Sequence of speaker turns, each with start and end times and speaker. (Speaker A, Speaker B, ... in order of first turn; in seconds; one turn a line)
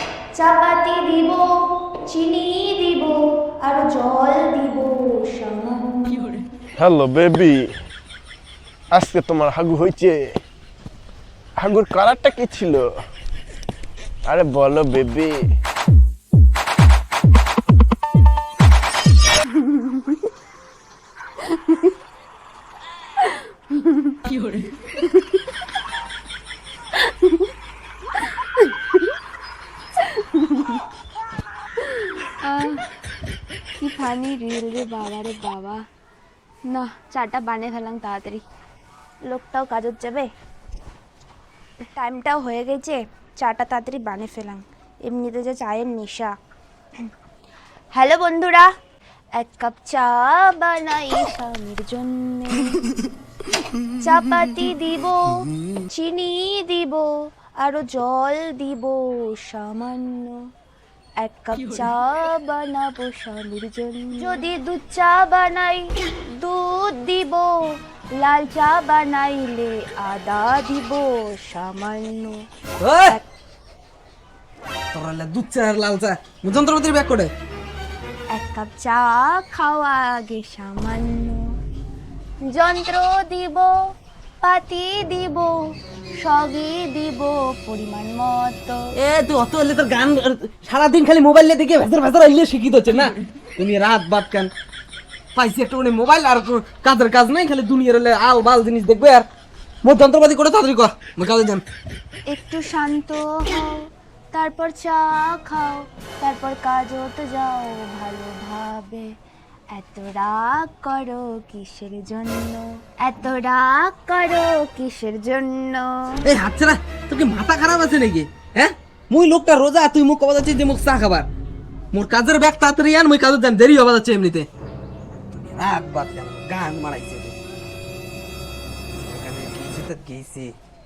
Speaker A: 0.3-1.5
Speaker A: 2.0-6.4
Speaker B: 6.8-7.6
Speaker B: 8.9-10.2
Speaker B: 11.6-12.9
Speaker B: 14.3-15.4
Speaker A: 30.1-30.7
Speaker A: 31.8-32.9
Speaker A: 33.8-35.8
Speaker A: 36.7-38.4
Speaker A: 39.2-40.3
Speaker A: 41.8-46.3
Speaker A: 47.9-48.7
Speaker A: 49.4-52.8
Speaker A: 54.0-60.4
Speaker A: 61.2-72.5
Speaker C: 72.8-73.2
Speaker C: 74.9-77.3
Speaker A: 78.3-81.5
Speaker A: 82.4-85.5
Speaker A: 86.2-88.9
Speaker C: 88.9-94.5
Speaker C: 95.3-99.2
Speaker C: 99.8-101.6
Speaker A: 102.3-109.1
Speaker A: 109.7-116.2
Speaker C: 116.2-121.3
Speaker C: 121.9-124.5
Speaker C: 125.3-127.3
Speaker C: 129.0-130.5